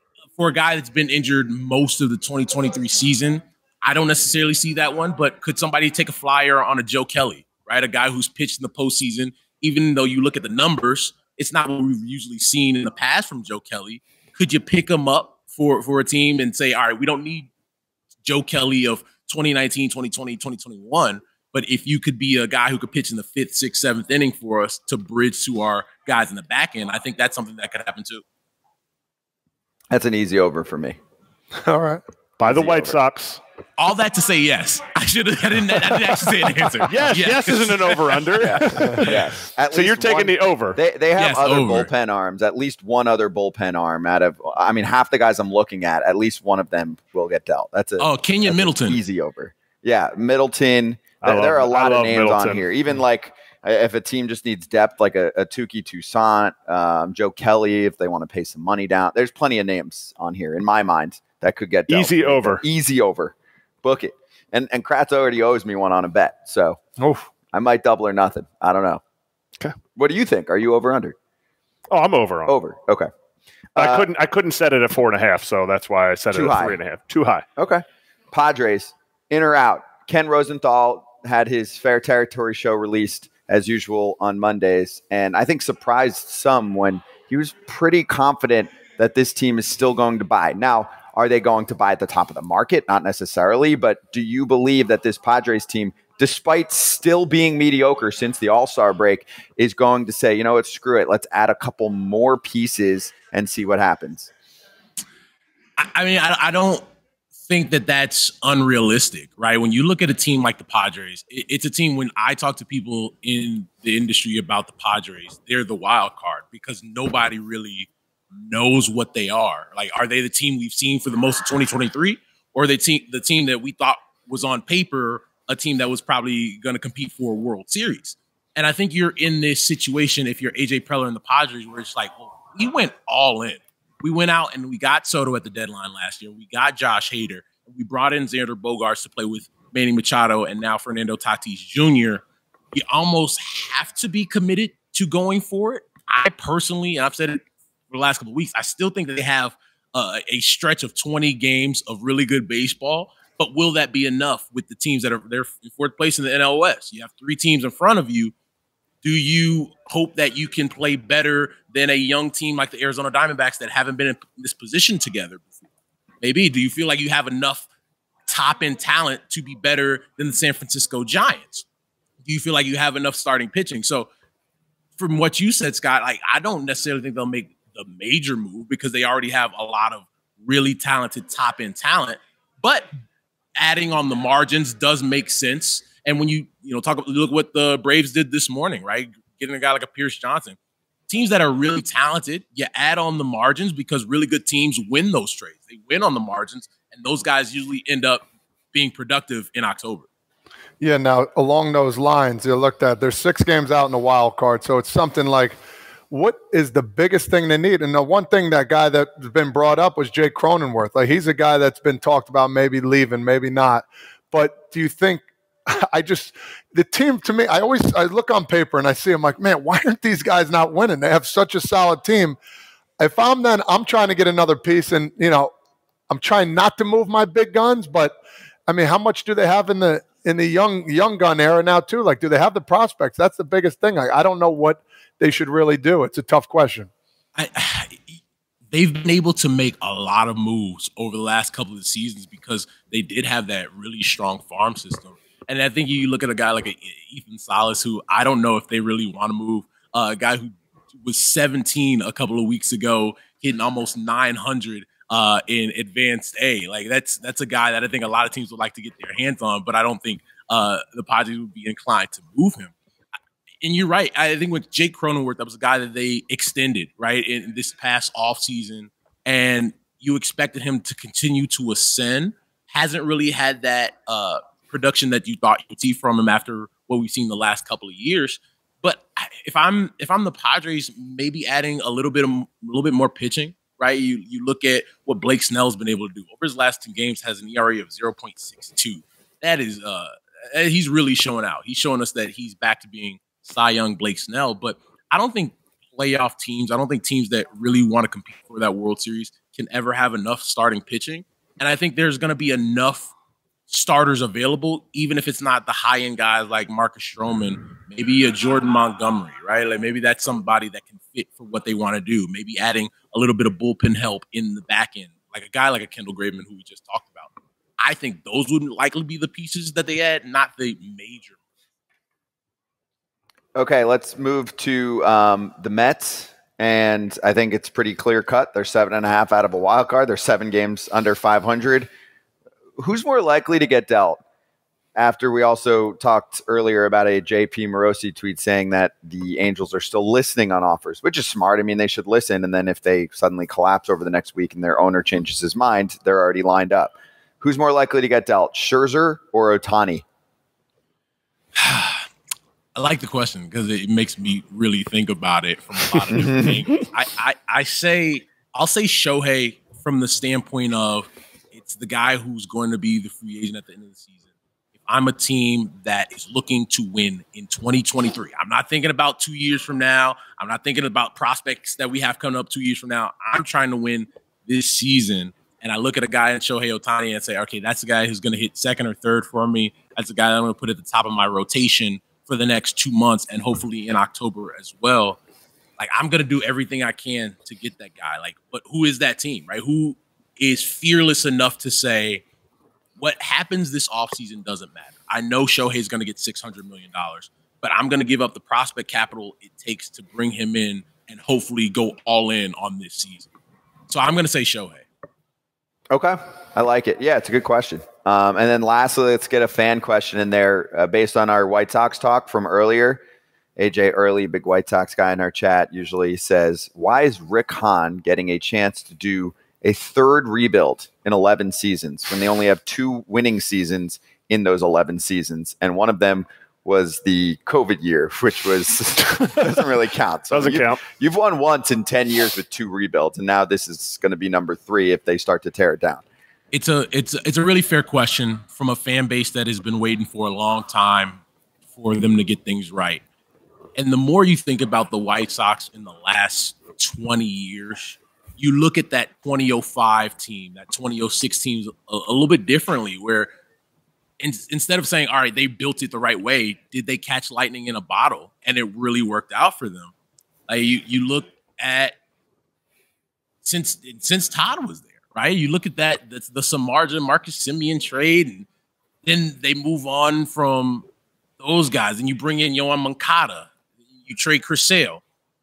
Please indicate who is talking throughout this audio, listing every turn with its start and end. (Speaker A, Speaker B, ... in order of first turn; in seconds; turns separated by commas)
Speaker A: 0.3-17.5, Speaker A: 18.2-28.2, Speaker B: 29.9-31.0, Speaker C: 31.6-32.0, Speaker D: 32.4-33.4, Speaker B: 32.4-33.0, Speaker A: 33.8-39.2, Speaker D: 36.9-39.1, Speaker B: 38.4-66.8, Speaker D: 39.7-40.8, Speaker A: 41.1-41.9, Speaker A: 48.0-49.0, Speaker D: 51.2-52.7, Speaker D: 61.9-62.6, Speaker B: 67.5-69.0, Speaker B: 70.0-71.1, Speaker D: 71.9-72.5, Speaker B: 72.5-73.1, Speaker B: 73.8-74.0, Speaker D: 73.8-77.4, Speaker B: 76.3-76.8, Speaker B: 77.6-104.3, Speaker A: 105.8-106.8, Speaker A: 107.4-158.3, Speaker A: 159.0-165.7, Speaker A: 166.2-167.7, Speaker A: 168.2-171.7, Speaker A: 172.2-174.1, Speaker A: 175.0-182.9, Speaker A: 183.6-200.1, Speaker C: 200.8-205.6, Speaker C: 206.1-215.3, Speaker C: 215.8-222.4, Speaker C: 223.0-225.5, Speaker C: 226.1-236.9, Speaker A: 237.3-238.2, Speaker A: 238.7-262.7, Speaker A: 263.6-303.1, Speaker A: 303.7-321.4, Speaker B: 323.5-331.9, Speaker B: 332.8-334.2, Speaker B: 334.9-350.0, Speaker A: 351.6-352.1, Speaker A: 352.7-364.2, Speaker A: 364.8-385.2, Speaker A: 385.8-392.2, Speaker A: 393.0-403.3, Speaker A: 403.9-404.8, Speaker B: 405.9-413.0, Speaker B: 413.6-436.0, Speaker D: 429.1-429.6, Speaker D: 430.3-430.8, Speaker A: 436.5-443.0, Speaker A: 443.8-453.3, Speaker A: 454.2-459.9, Speaker A: 460.5-461.9, Speaker A: 463.4-468.5, Speaker A: 469.0-470.9, Speaker A: 471.4-475.0